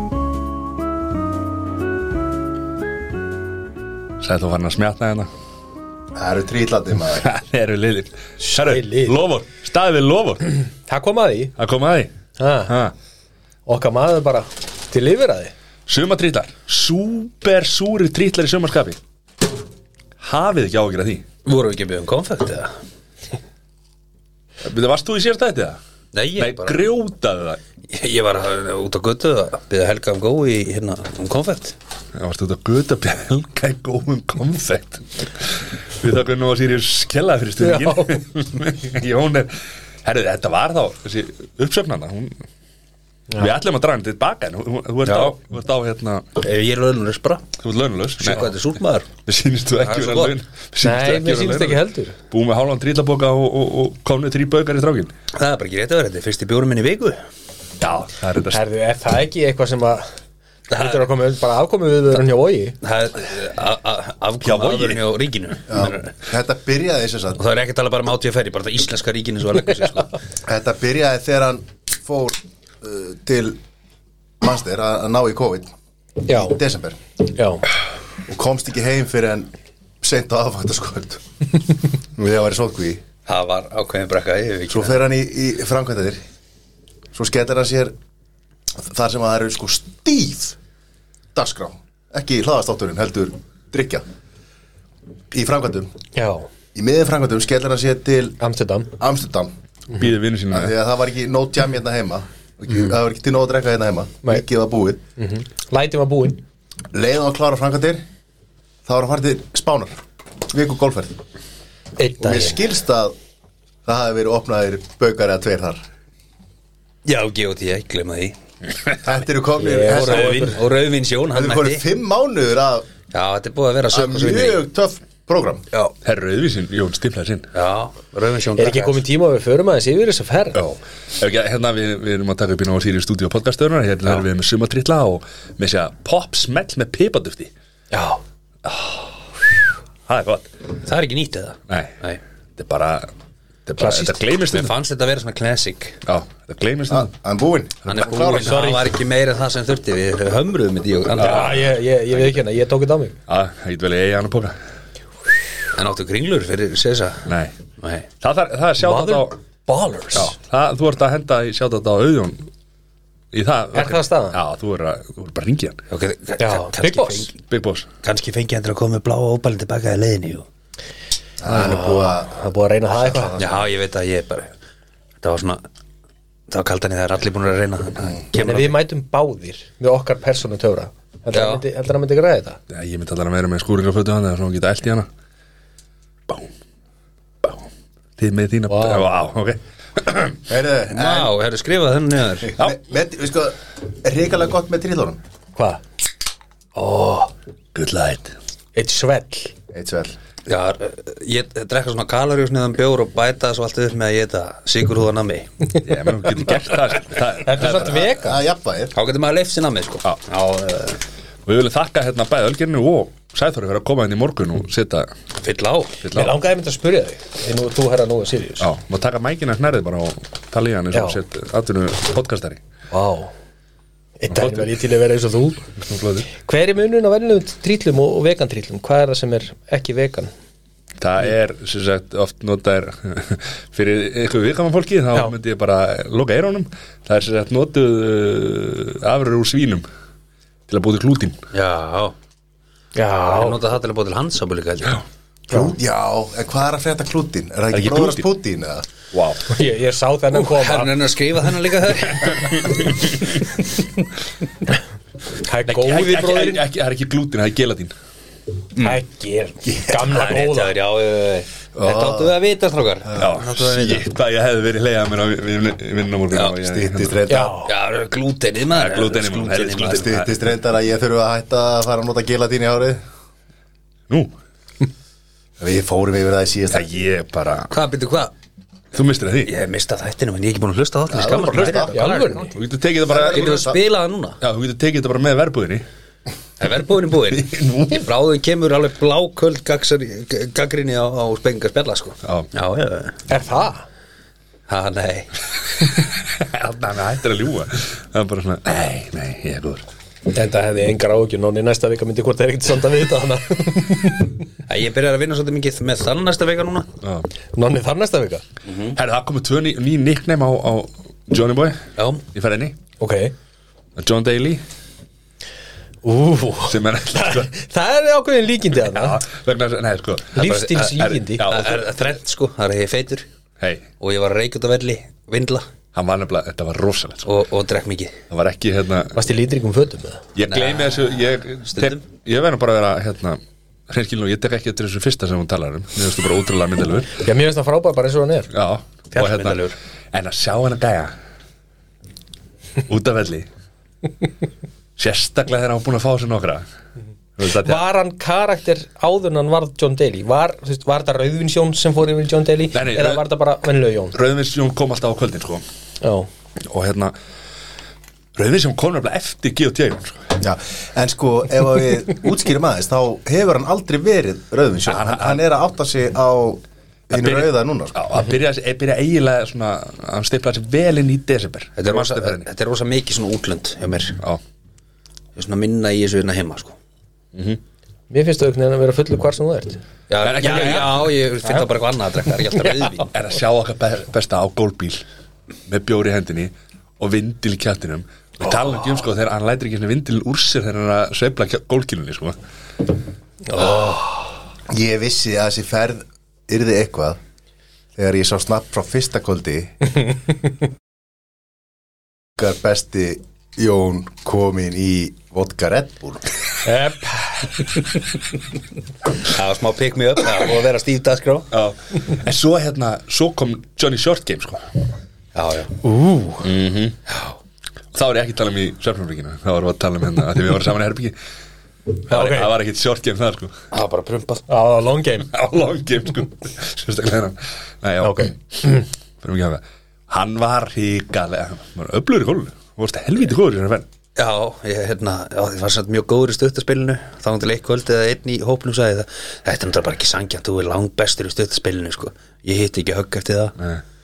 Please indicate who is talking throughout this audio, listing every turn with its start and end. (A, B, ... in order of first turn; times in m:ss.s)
0:04.2-0:05.3 A
0:06.2-0:07.3 B
0:07.1-0:10.6 A
0:08.4-0:09.2 C
0:10.9-0:11.5 C
0:11.6-0:12.1 A
0:12.4-0:12.7 C
0:12.7-0:12.9 A
0:13.7-0:15.5 C
0:15.9-0:19.0 A
0:20.2-0:21.2 A
0:21.4-0:22.8 D
0:24.6-0:25.8 A
0:26.1-0:26.8 D
0:26.4-0:27.6 A
0:27.9-0:31.8 D
0:32.2-0:42.4 A
0:37.6-0:38.2 C
0:43.4-0:46.3 A
0:45.0-0:45.4 D
0:46.4-0:47.5 D
0:47.6-0:48.6 A
0:48.2-0:49.1 D
0:49.2-0:55.1 A
0:49.8-0:50.3 D
0:50.8-0:52.2 C
0:55.4-0:57.2 D
0:57.8-0:58.6 A
0:58.5-1:00.1 C
1:00.7-1:01.1 D
1:00.7-1:02.8 C
1:02.8-1:06.1 D
1:04.4-1:05.0 A
1:05.7-1:07.4 B
1:07.4-1:10.1 D
1:10.4-1:13.6 B
1:14.4-1:15.7 B
1:16.3-1:16.6 C
1:16.3-1:17.0 B
1:17.2-1:17.6 C
1:18.3-1:19.5 B
1:20.0-1:21.2 B
1:22.2-1:23.0 B
1:23.3-1:25.0 D
1:24.7-1:26.2 B
1:27.1-1:27.9 B
1:28.8-1:30.6 B
1:31.4-1:34.0 B
1:35.3-1:35.9 B
1:36.2-1:36.5 C
1:36.8-1:38.4 B
1:38.4-1:38.9 C
1:39.0-1:39.5 B
1:39.9-1:40.7 A
1:40.5-1:45.0 B
1:45.2-1:46.4 C
1:46.9-1:48.0 B
1:48.8-1:51.2 B
1:52.0-1:52.6 C
1:52.2-1:53.2 B
1:53.8-1:55.8 B
1:57.0-1:58.4 D
1:59.0-2:00.6 B
1:59.6-2:00.6 C
1:59.9-2:01.8 D
2:01.3-2:02.9 B
2:03.1-2:04.6 D
2:03.9-2:05.7 B
2:06.0-2:07.5 A
2:07.5-2:09.0 D
2:08.6-2:10.6 C
2:10.6-2:17.5 A
2:17.9-2:18.2 C
2:18.6-2:19.2 A
2:20.1-2:20.5 A
2:20.8-2:22.2 D
2:21.7-2:22.0 A
2:22.6-2:23.1 A
2:23.7-2:24.7 A
2:23.8-2:24.2 C
2:24.5-2:26.0 D
2:26.1-2:27.1 A
2:26.9-2:28.7 B
2:27.9-2:31.7 D
2:28.3-2:28.9 C
2:31.2-2:33.2 C
2:31.2-2:31.5 A
2:33.3-2:34.6 A
2:35.7-2:37.3 D
2:37.3-2:37.5 A
2:37.8-2:38.1 D
2:38.2-2:39.4 A
2:38.8-2:40.3 C
2:40.1-2:42.5 A
2:43.3-2:45.8 A
2:43.7-2:44.4 C
2:45.9-2:47.3 D
2:46.4-2:47.3 C
2:47.4-2:47.9 A
2:48.0-2:50.4 D
2:51.4-2:52.4 B
2:51.4-2:53.3 C
2:53.0-2:53.6 B
2:53.4-2:54.5 D
2:55.2-2:55.6 D
2:56.5-2:58.8 D
2:58.4-3:02.6 C
3:01.3-3:01.6 D
3:02.7-3:05.1 A
3:08.2-3:10.4 A
3:08.7-3:09.1 C
3:10.5-3:11.3 B
3:10.9-3:12.6 D
3:12.5-3:15.2 B
3:15.6-3:15.8 C
3:16.8-3:17.3 C
3:17.8-3:18.4 A
3:18.8-3:19.5 C
3:19.7-3:20.2 B
3:20.5-3:25.7 D
3:25.8-3:28.0 A
3:27.4-3:28.4 C
3:28.0-3:28.9 B
3:28.9-3:31.0 D
3:31.5-3:35.1 A
3:35.4-3:36.0 D
3:36.0-3:36.4 A
3:36.1-3:38.7 C
3:38.6-3:42.6 A
3:42.9-3:43.3 C
3:44.2-3:45.6 C
3:44.3-3:44.7 A
3:45.8-3:46.3 A
3:46.3-3:50.3 C
3:51.0-3:59.9 A
4:00.7-4:01.4 A
4:01.5-4:02.2 D
4:03.0-4:03.6 C
4:03.3-4:05.0 D
4:05.5-4:08.9 B
4:05.5-4:05.8 C
4:07.7-4:08.3 A
4:09.1-4:09.4 A
4:09.5-4:11.0 C
4:10.3-4:12.6 D
4:15.4-4:16.6 C
4:15.7-4:17.9 A
4:18.8-4:20.7 C
4:20.0-4:24.0 D
4:21.8-4:22.4 B
4:23.2-4:27.2 A
4:26.6-4:27.6 B
4:27.3-4:27.7 C
4:27.6-4:30.2 D
4:28.7-4:30.3 A
4:29.9-4:33.0 B
4:35.6-4:36.9 B
4:36.7-4:37.7 A
4:37.7-4:38.3 D
4:38.9-4:39.5 A
4:39.4-4:42.5 D
4:41.1-4:42.0 B
4:41.9-4:42.5 C
4:42.5-4:43.6 A
4:43.1-4:43.8 B
4:43.1-4:44.4 D
4:44.4-4:45.8 A
4:46.6-4:53.2 D
4:47.3-4:48.1 A
4:52.2-4:52.5 A
4:53.3-4:53.8 C
4:54.7-4:55.3 D
4:55.8-4:59.8 A
5:00.3-5:04.4 C
5:04.7-5:06.9 D
5:07.0-5:07.3 A
5:07.5-5:08.4 C
5:08.6-5:09.0 D
5:09.0-5:11.8 A
5:12.0-5:12.2 D
5:12.3-5:12.8 A
5:13.0-5:13.3 C
5:14.0-5:14.6 A
5:16.0-5:19.2 C
5:16.7-5:17.5 A
5:18.9-5:21.9 A
5:20.4-5:21.5 C
5:20.4-5:23.3 D
5:23.6-5:23.9 A
5:24.0-5:25.7 D
5:25.9-5:27.3 A
5:27.2-5:28.2 D
5:28.3-5:29.2 A
5:29.2-5:30.2 C
5:30.4-5:37.1 A
5:30.5-5:31.1 D
5:31.7-5:32.0 D
5:37.1-5:38.5 C
5:38.5-5:41.2 A
5:39.1-5:39.8 D
5:42.8-5:43.5 A
5:45.0-5:46.6 A
5:47.4-5:47.8 A
5:47.5-5:54.2 C
5:52.7-5:53.2 A
5:54.1-5:55.6 A
5:56.0-5:56.3 C
5:56.7-5:57.2 A
5:58.4-6:00.3 A
6:00.4-6:08.0 B
6:04.9-6:05.4 A
6:07.1-6:12.5 A
6:11.8-6:14.2 D
6:15.4-6:16.8 D
6:17.3-6:17.6 A
6:18.1-6:19.8 C
6:20.1-6:23.1 D
6:20.2-6:21.0 A
6:20.4-6:20.9 C
6:23.0-6:25.0 A
6:25.7-6:32.4 A
6:33.4-6:34.3 C
6:34.7-6:37.2 B
6:38.0-6:39.7 B
6:42.4-6:46.3 B
6:46.6-6:47.8 C
6:49.2-6:51.5 D
6:51.5-6:54.6 A
6:55.4-6:55.7 D
6:55.8-6:56.5 C
6:56.4-6:57.0 A
6:57.9-7:01.2 A
7:02.1-7:03.6 A
7:02.1-7:02.5 C
7:03.7-7:04.5 D
7:04.5-7:05.3 C
7:05.3-7:13.9 A
7:08.0-7:08.8 C
7:14.2-7:23.6 D